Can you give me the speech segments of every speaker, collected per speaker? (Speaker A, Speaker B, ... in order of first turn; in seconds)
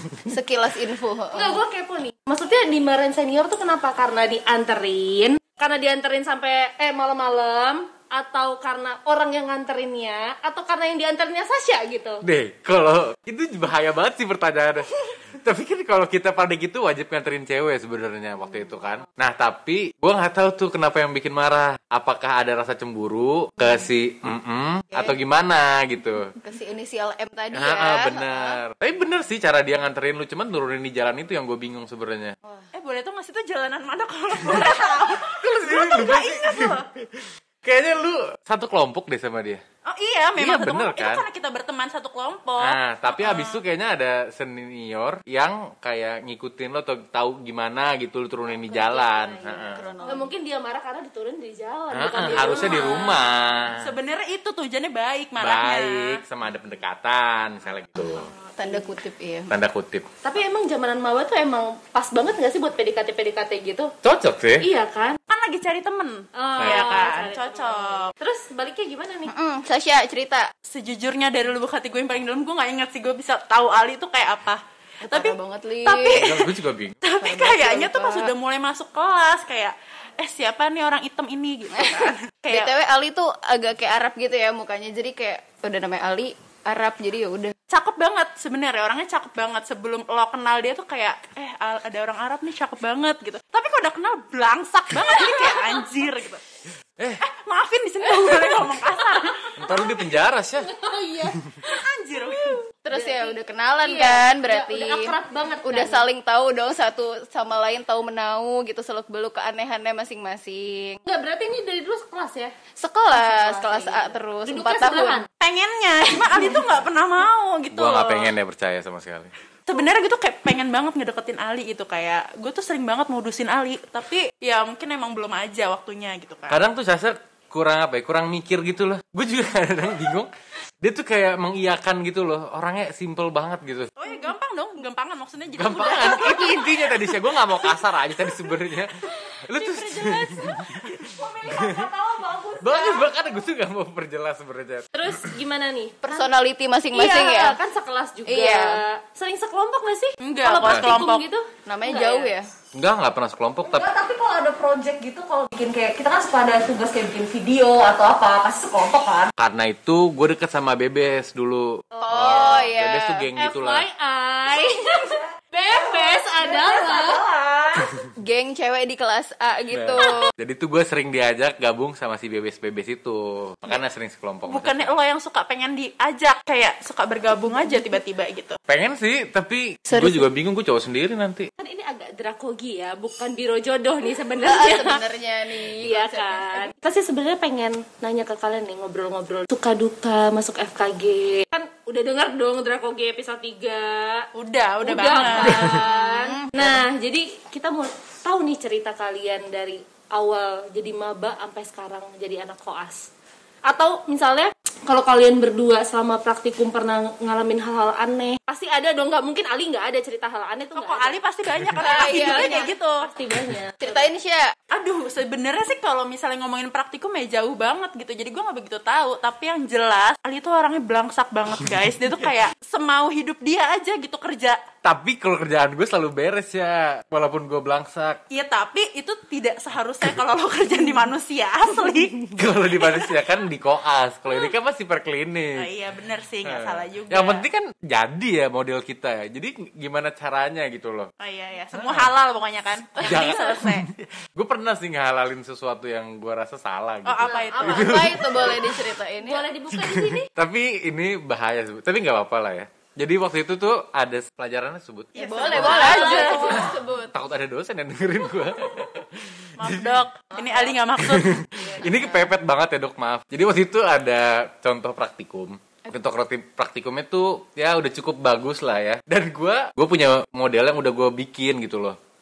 Speaker A: 0.2-1.6, 26.4-28.6, 49.5-50.3, 58.6-59.5, 69.3-70.5, 75.0-76.3, 77.2-78.3, 81.8-87.5, 102.8-111.0, 112.8-115.2, 146.0-147.6, 148.2-148.8, 151.7-152.5, 162.0-163.2, 168.2-170.3, 179.9-180.3, 184.4-186.7, 195.5-196.8, 211.8-212.7, 213.8-214.5, 247.6-249.4, 255.2-257.1
Speaker B: 1.3-12.2, 48.5-53.3, 58.0-58.9, 60.2-63.9, 64.6-65.2, 66.3-69.3, 100.6-106.0, 111.0-112.5, 113.1-115.3, 139.3-140.6, 144.9-146.3, 146.9-152.3, 161.9-162.7, 163.3-167.2, 181.6-185.0, 185.8-194.3, 194.8-203.1, 203.6-211.2, 211.8-214.1, 247.2-247.9, 249.2-250.3, 255.3-256.7, 260.3-260.7, 261.6-262.1
Speaker C: 12.2-26.3, 27.5-32.4, 34.5-39.6, 40.4-41.2, 42.6-49.9, 51.9-53.9, 55.4-58.3, 59.5-60.0, 64.0-64.6, 66.6-66.9, 76.1-77.0, 97.0-97.2, 99.6-100.7, 117.7-119.3, 126.5-133.9, 135.6-141.9, 142.6-144.9, 150.6-151.0, 152.7-153.9, 159.4-163.8, 169.7-174.9, 178.7-181.5, 224.8-228.2, 232.2-235.7, 236.4-241.1, 241.7-242.1, 243.0-248.9, 249.7-260.0, 261.0-272.0
Speaker D: 32.7-36.9, 39.8-43.6, 52.2-53.1, 53.7-56.2, 65.3-68.1, 70.7-82.7, 87.7-96.4, 97.2-99.6, 101.6-102.6, 115.4-118.3, 119.7-126.6, 134.0-136.9, 150.2-151.2, 174.5-178.6, 194.3-195.7, 210.7-213.1, 214.7-224.6, 228.3-232.3, 235.6-237.4, 241.2-243.9, 247.0-248.1, 255.1-256.7, 259.6-261.4
Speaker E: 141.0-143.2, 153.6-159.3, 165.7-168.0